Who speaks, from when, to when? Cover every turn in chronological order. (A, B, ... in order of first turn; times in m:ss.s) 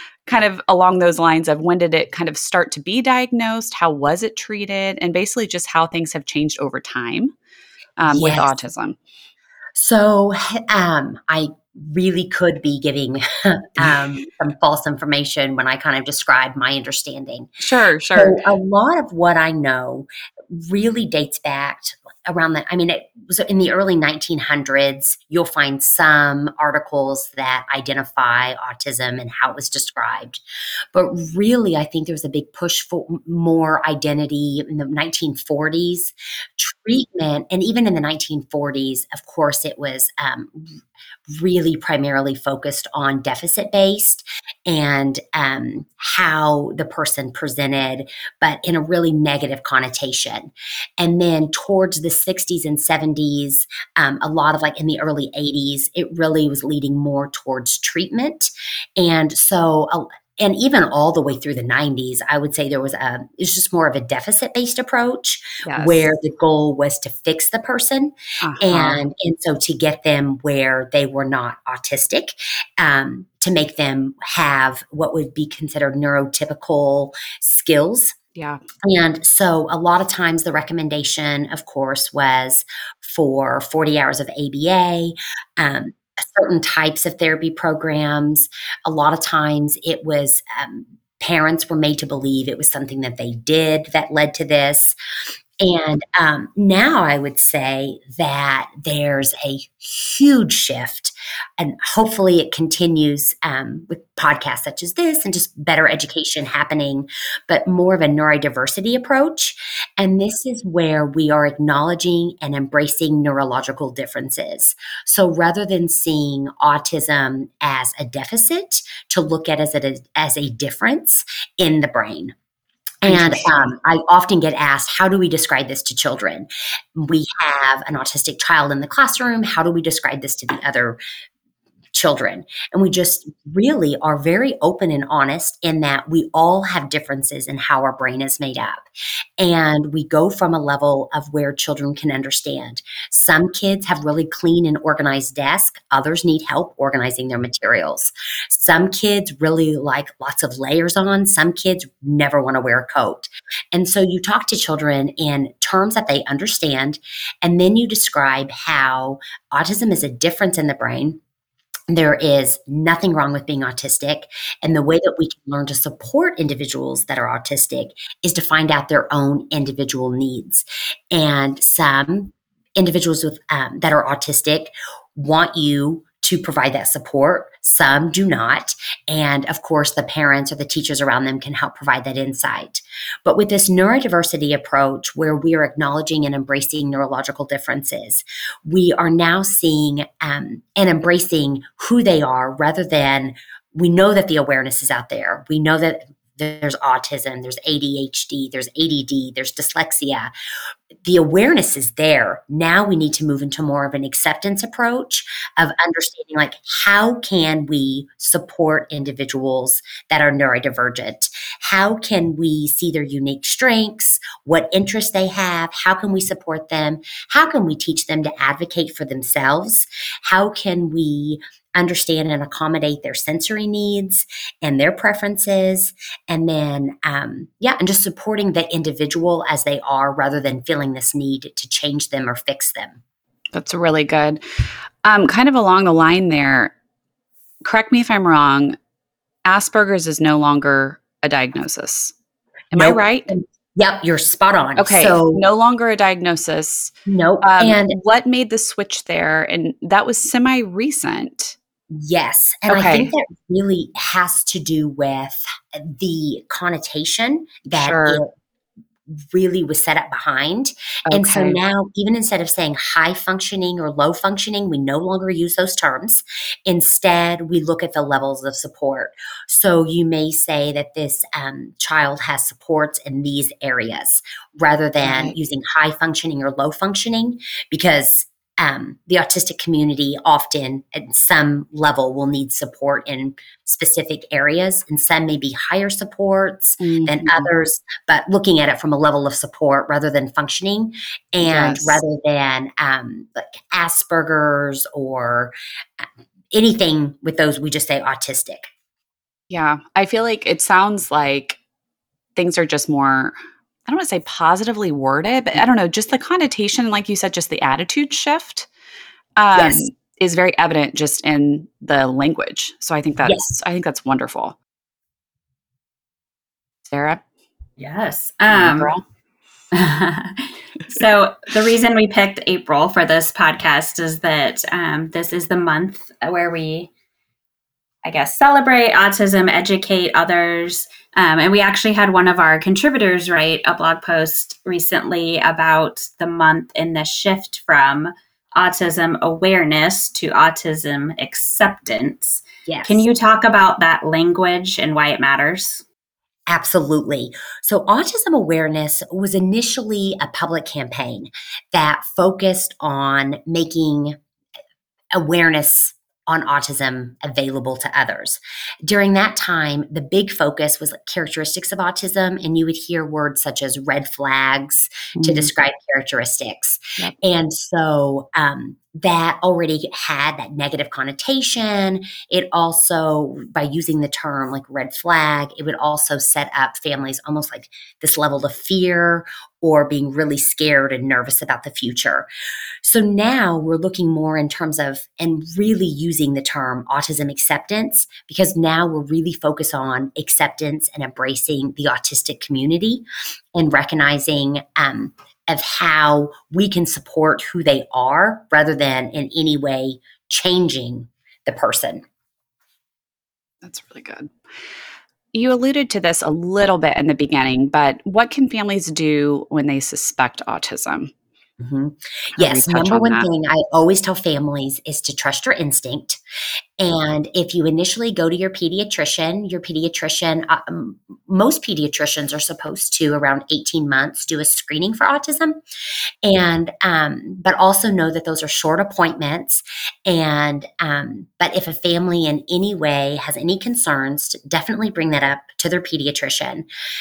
0:00.3-0:07.3 A
0:08.0-0:09.0 A
0:08.1-0:08.5 B
0:09.8-0:17.5 B
0:17.6-0:18.4 A
0:18.2-0:30.4 B
0:30.9-0:40.8 B
0:41.3-1:18.2 B
1:05.6-1:06.1 A
1:08.4-1:09.0 A
1:18.4-1:18.6 A
1:18.8-1:35.0 B
1:35.6-2:02.3 B
2:03.0-2:11.0 B
2:03.1-2:03.7 A
2:11.9-2:18.8 B
2:19.4-2:41.2 B
2:41.9-3:20.3 B
3:21.0-3:53.0 B
3:53.5-3:56.7 A
3:57.6-3:58.8 A
3:59.5-4:02.1 A
4:02.7-4:03.3 A
4:02.7-4:05.4 B
4:04.8-4:11.6 A
4:07.1-4:08.0 B
4:11.9-4:18.3 B
4:12.7-4:13.1 A
4:17.7-4:18.2 A
4:19.2-4:58.7 B
4:21.1-4:21.6 A
4:35.0-4:35.4 A
4:46.8-4:47.5 A
4:51.4-4:52.0 A
4:59.5-5:01.6 A
5:02.4-5:03.4 A
5:03.9-5:08.7 A
5:09.4-5:14.6 A
5:09.6-5:09.8 B
5:13.2-5:13.5 B
5:16.9-5:17.2 A
5:17.8-5:18.9 C
5:18.5-5:19.0 A
5:19.7-5:26.9 C
5:28.0-5:45.8 C
5:42.7-5:43.1 B
5:46.5-5:54.2 B
5:55.1-6:22.3 B
6:05.1-6:05.5 A
6:22.8-6:42.0 B
6:43.6-6:44.3 A
6:45.3-6:51.1 A
6:51.6-6:56.2 B
6:52.4-6:53.3 A
6:56.8-7:05.6 B
7:06.2-7:16.7 B